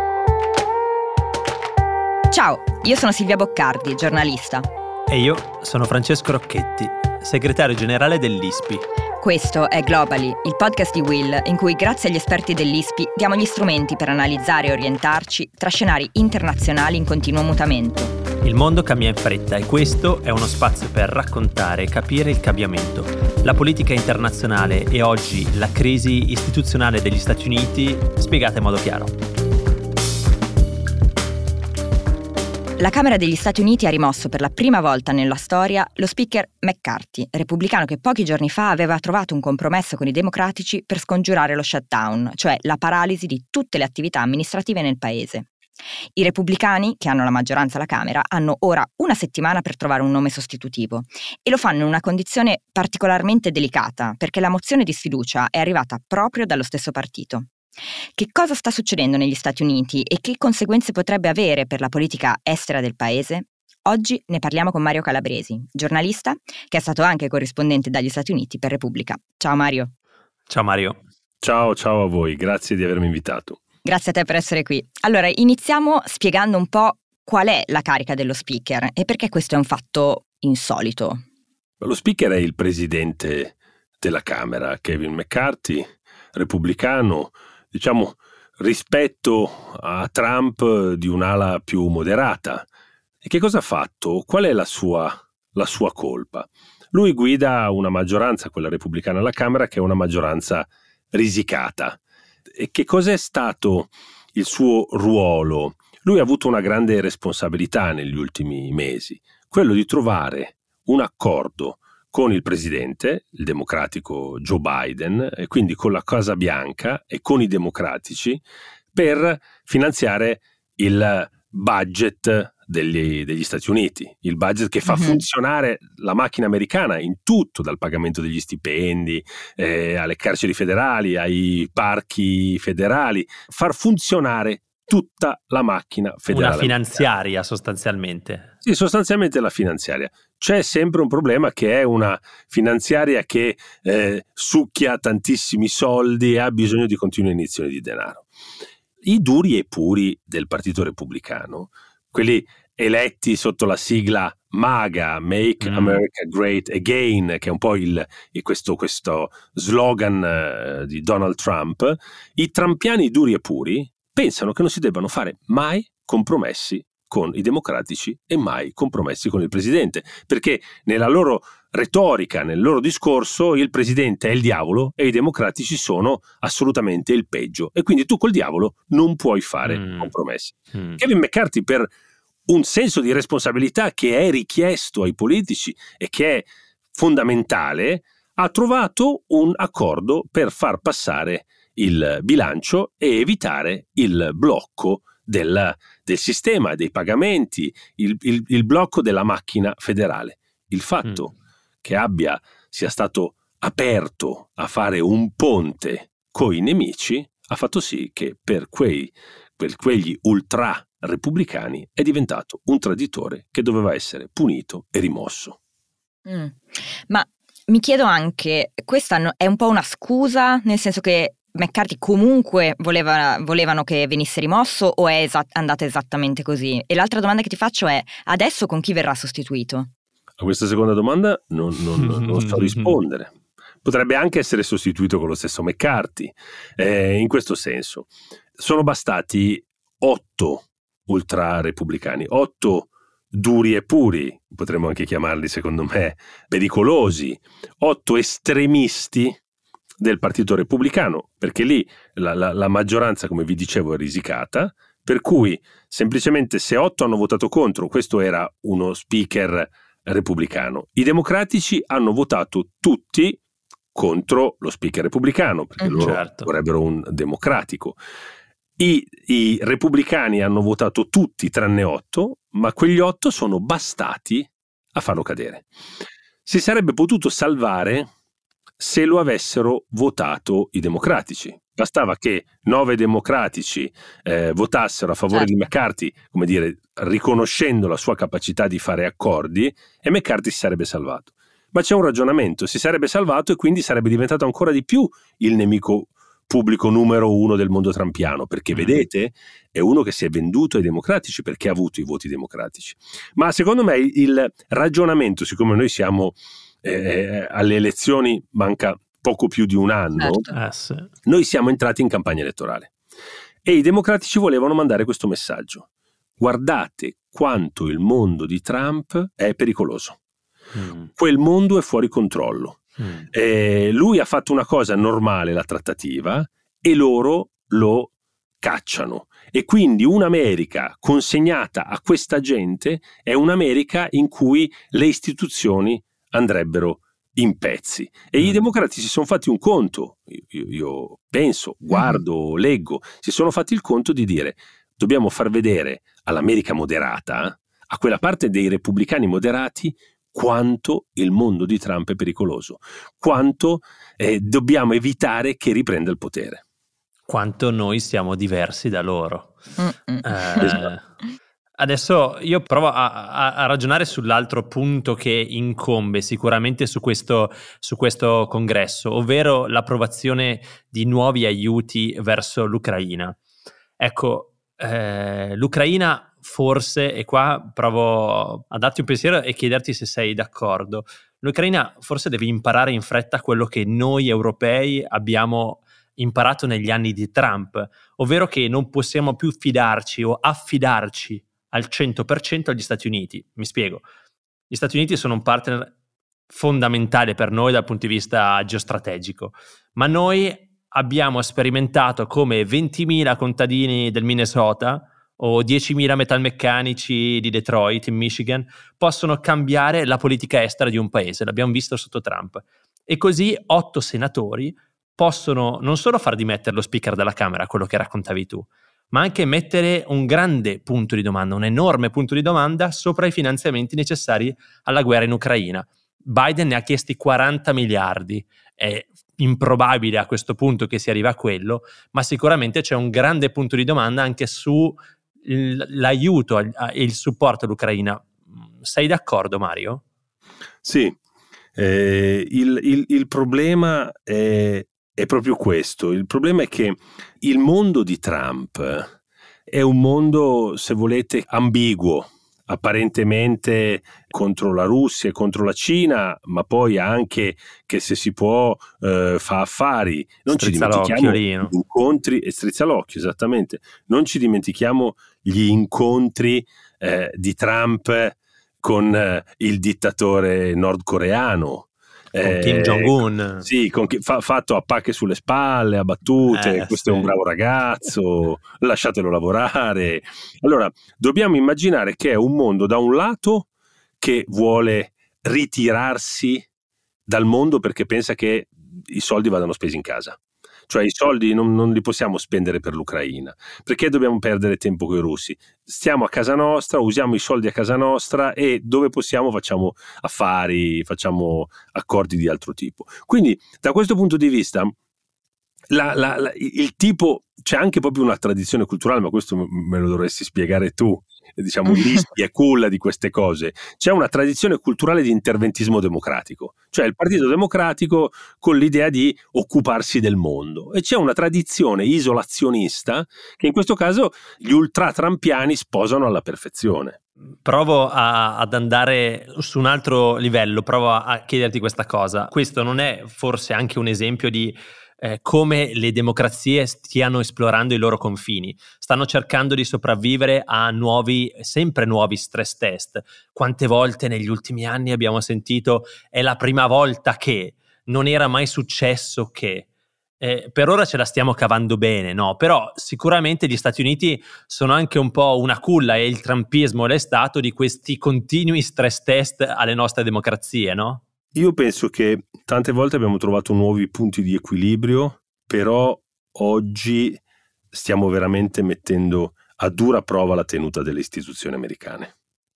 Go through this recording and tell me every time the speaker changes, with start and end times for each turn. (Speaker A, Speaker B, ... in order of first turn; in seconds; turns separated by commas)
Speaker A: 2.3-4.7, Speaker B: 5.1-8.8, Speaker A: 9.2-18.1, Speaker B: 18.4-29.1, Speaker A: 32.8-45.5, Speaker A: 46.1-57.5, Speaker A: 58.1-69.9, Speaker B: 70.5-71.0, Speaker C: 71.4-73.6, Speaker A: 73.8-81.2, Speaker C: 81.8-92.7, Speaker C: 93.2-102.0, Speaker C: 102.5-118.4, Speaker C: 118.9-137.0, Speaker A: 124.8-125.2, Speaker B: 136.3-138.5, Speaker C: 138.6-148.3, Speaker C: 149.0-181.9, Speaker B: 155.6-156.0, Speaker B: 179.6-180.1, Speaker B: 180.7-181.0, Speaker C: 182.5-201.3, Speaker C: 201.8-215.6, Speaker A: 216.2-229.9, Speaker C: 230.4-233.3, Speaker B: 232.0-232.9, Speaker C: 233.8-249.4, Speaker C: 250.0-263.4, Speaker C: 263.9-268.0, Speaker A: 265.8-266.1, Speaker B: 266.0-266.5, Speaker C: 268.8-275.7, Speaker C: 276.4-278.1, Speaker C: 278.8-310.5, Speaker B: 298.7-299.0, Speaker A: 310.2-310.5, Speaker B: 310.5-311.1, Speaker C: 311.2-312.9, Speaker C: 313.6-315.9, Speaker C: 316.4-320.2, Speaker B: 320.7-321.1, Speaker C: 321.2-322.8, Speaker B: 323.0-323.3, Speaker C: 323.3-328.1, Speaker C: 328.6-356.6, Speaker A: 341.9-342.2, Speaker B: 357.3-359.5, Speaker A: 359.8-360.8, Speaker B: 360.2-361.0, Speaker B: 361.8-373.4, Speaker B: 374.0-394.0, Speaker B: 394.7-395.9, Speaker B: 396.5-440.0, Speaker C: 440.8-441.1, Speaker C: 441.8-449.1, Speaker C: 449.7-483.7, Speaker B: 460.5-461.7, Speaker B: 472.4-473.7, Speaker B: 476.5-477.3, Speaker C: 484.2-486.6, Speaker C: 487.3-490.4, Speaker C: 490.9-504.9, Speaker C: 505.9-527.2, Speaker B: 527.6-549.9, Speaker B: 550.4-561.2, Speaker C: 561.5-567.4, Speaker C: 567.9-572.3